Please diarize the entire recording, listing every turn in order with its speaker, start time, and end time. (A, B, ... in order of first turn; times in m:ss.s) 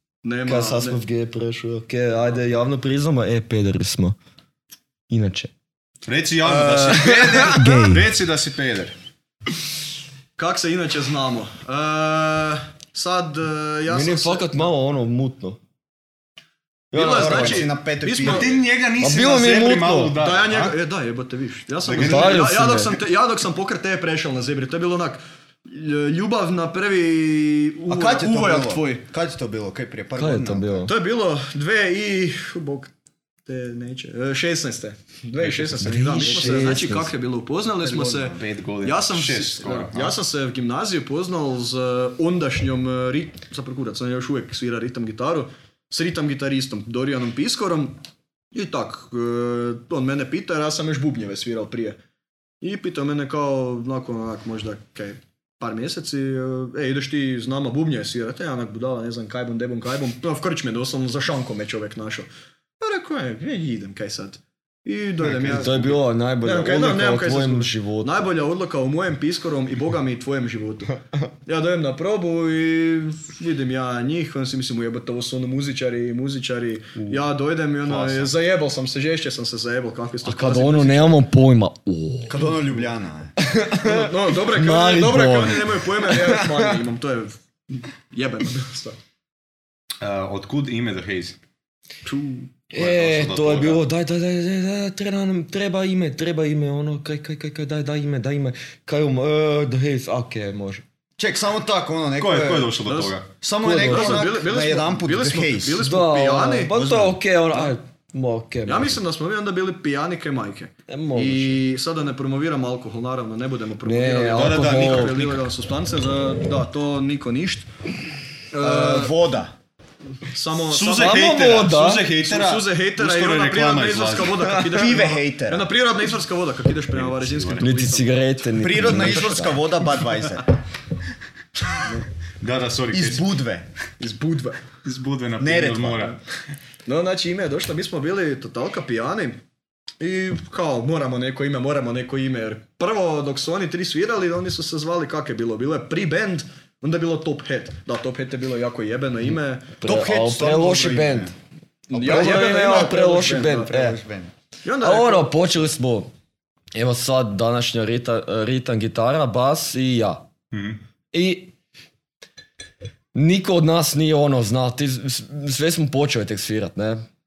0:00.2-0:01.0 A
0:00.5-0:04.2 B
0:05.1-0:05.5 B
0:06.0-0:09.0 C
0:06.9-0:07.6 B
0:07.4-0:08.1 D
0:10.4-0:14.6 A
0:13.9-0:15.6 B
0:16.9-0:17.6 B
0:16.9-0:18.6 A
0:17.0-0:18.5 D
0:18.2-0:20.8 C
0:19.0-0:20.2 B
0:20.2-0:29.0 A
0:21.8-0:22.5 C
0:21.9-0:23.0 B
0:27.9-0:30.9 D
0:30.2-0:30.9 B
0:30.9-0:32.9 A
0:33.5-0:48.0 A
0:35.4-0:36.0 C
0:35.8-0:37.1 B
0:37.8-0:38.4 D
0:38.3-0:40.2 C
0:48.5-0:52.0 A
0:52.6-1:02.3 A
1:02.8-1:21.2 A
1:05.3-1:05.9 C
1:05.4-1:08.3 B
1:17.8-1:18.3 C
1:20.2-1:22.4 B
1:22.3-1:23.3 D
1:22.4-1:22.8 A
1:23.4-1:26.7 B
1:23.7-1:29.0 A
1:30.0-1:31.4 C
1:32.0-1:32.5 A
1:32.7-1:40.8 B
1:32.7-1:33.8 C
1:41.2-1:42.8 D
1:42.2-1:43.3 C
1:42.9-1:43.2 A
1:43.4-1:45.8 D
1:43.6-1:44.3 B
1:43.8-1:46.8 A
1:45.8-1:49.0 B
1:46.7-1:47.2 D
1:48.7-1:57.7 A
1:50.9-1:51.6 B
1:53.8-1:55.2 B
1:54.3-1:55.4 C
1:58.5-1:59.2 A
1:58.6-1:59.5 D
2:00.2-2:08.1 A
2:00.7-2:04.6 C
2:01.0-2:02.1 B
2:04.7-2:05.7 D
2:06.9-2:07.8 C
2:07.6-2:09.6 B
2:08.6-2:10.5 D
2:12.4-2:13.3 C
2:12.9-2:13.7 D
2:14.0-2:14.6 A
2:14.8-2:16.2 C
2:15.4-2:16.2 D
2:16.9-2:19.4 A
2:20.0-2:29.7 A
2:29.8-2:31.3 B
2:29.8-2:31.3 D
2:31.9-2:33.8 A
2:31.9-2:34.0 B
2:33.7-2:34.3 D
2:34.6-2:35.3 A
2:34.8-2:36.1 B
2:36.7-2:40.2 B
2:40.5-2:40.8 C
2:41.1-2:41.5 B
2:43.2-2:47.0 B